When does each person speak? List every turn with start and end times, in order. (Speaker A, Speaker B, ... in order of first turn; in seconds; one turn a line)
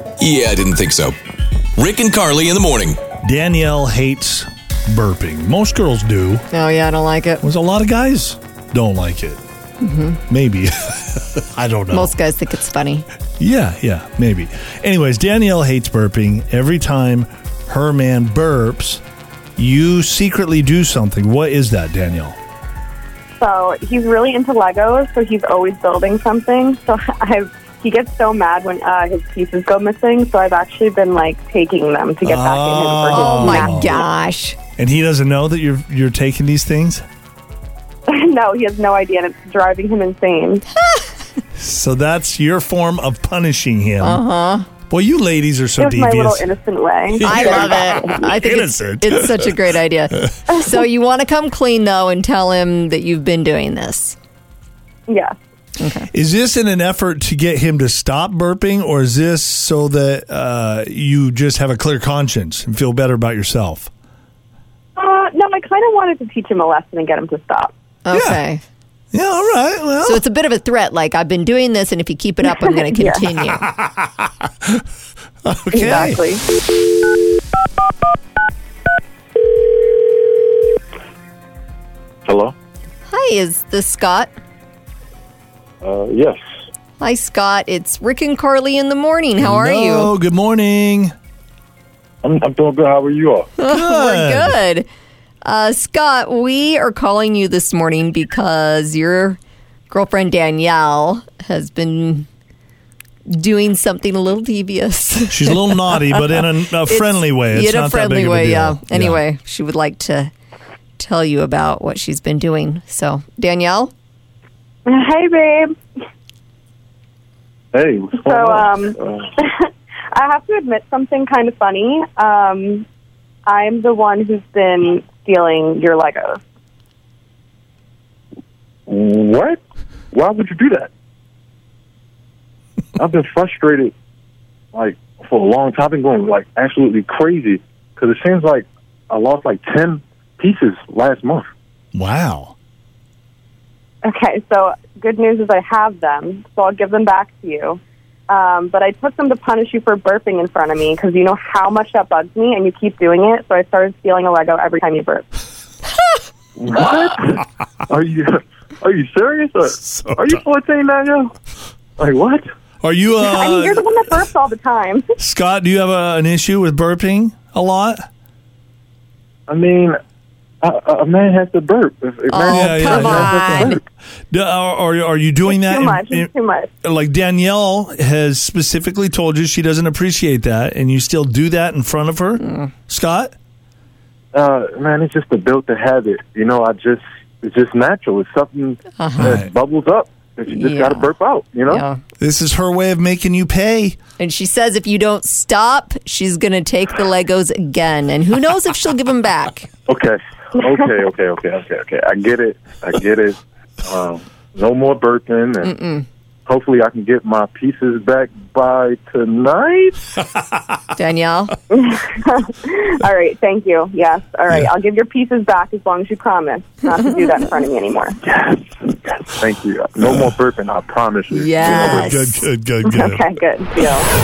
Speaker A: 0.2-1.1
Speaker A: 1.8-3.0
Speaker B: 3.2-6.5
Speaker C: 6.5-7.4
Speaker B: 7.4-9.4
Speaker C: 9.8-10.2
Speaker B: 10.3-12.2
Speaker C: 11.9-13.1
Speaker B: 13.4-19.0
Speaker B: 19.6-22.4
Speaker D: 23.4-34.1
Speaker B: 32.2-34.0
Speaker C: 33.1-34.6
Speaker B: 34.8-37.0
Speaker D: 38.1-40.6
Speaker B: 41.5-44.2
Speaker C: 44.0-44.7
Speaker B: 44.9-46.5
Speaker D: 45.8-47.8
Speaker B: 47.2-49.6
Speaker C: 47.2-54.2
Speaker D: 55.1-55.4
Speaker C: 55.8-56.1
Speaker B: 56.1-63.9
Speaker D: 65.0-67.7
Speaker C: 68.0-68.6
Speaker B: 68.1-68.4
Speaker B: 69.1-70.2
Speaker C: 70.0-73.7
Speaker D: 72.4-73.2
Speaker B: 73.5-73.8
Speaker B: 75.5-76.2
Speaker D: 75.7-76.4
Speaker E: 82.2-82.5
Speaker C: 83.1-84.3
Speaker E: 85.8-86.4
Speaker C: 87.0-90.1
Speaker B: 89.4-91.1
Speaker E: 92.2-93.5
Speaker C: 93.6-94.9
Speaker B: 93.6-94.6
Speaker C: 95.4-99.4
Speaker C: 99.9-102.3
Speaker C: 103.3-106.2
Speaker B: 105.3-109.2
Speaker C: 106.9-110.3
Speaker C: 111.0-113.9
Speaker D: 114.9-115.7
Speaker E: 117.7-119.3
Speaker D: 118.2-122.9
Speaker D: 123.5-126.4
Speaker E: 128.9-129.6
Speaker E: 130.1-130.9
Speaker E: 133.0-133.9
Speaker E: 134.7-141.5
Speaker B: 141.9-142.6
Speaker D: 144.0-155.3
Speaker E: 156.6-161.3
Speaker B: 160.1-160.4
Speaker E: 162.0-162.4
Speaker B: 162.8-163.8
Speaker D: 163.2-165.1
Speaker B: 165.2-168.0
Speaker E: 169.5-170.0
Speaker E: 170.6-173.8
Speaker C: 172.3-173.8
Speaker B: 172.4-173.8
Speaker B: 174.3-176.3
Speaker D: 175.5-176.7
Speaker B: 176.8-183.3
Speaker C: 182.4-182.7
Speaker E: 184.3-191.8
Speaker C: 189.0-189.4
Speaker B: 189.2-189.5
Speaker C: 190.5-191.1
Speaker C: 191.7-192.0
Speaker B: 192.2-194.0
Speaker C: 194.2-199.7
Speaker E: 199.9-205.8
Speaker C: 205.6-206.1
Speaker E: 206.5-210.0
Speaker C: 210.9-211.5
Speaker D: 211.7-218.2
Speaker E: 218.2-222.2
Speaker B: 220.0-220.3
Speaker C: 221.3-222.4
Speaker B: 221.6-223.2
Speaker D: 222.8-224.1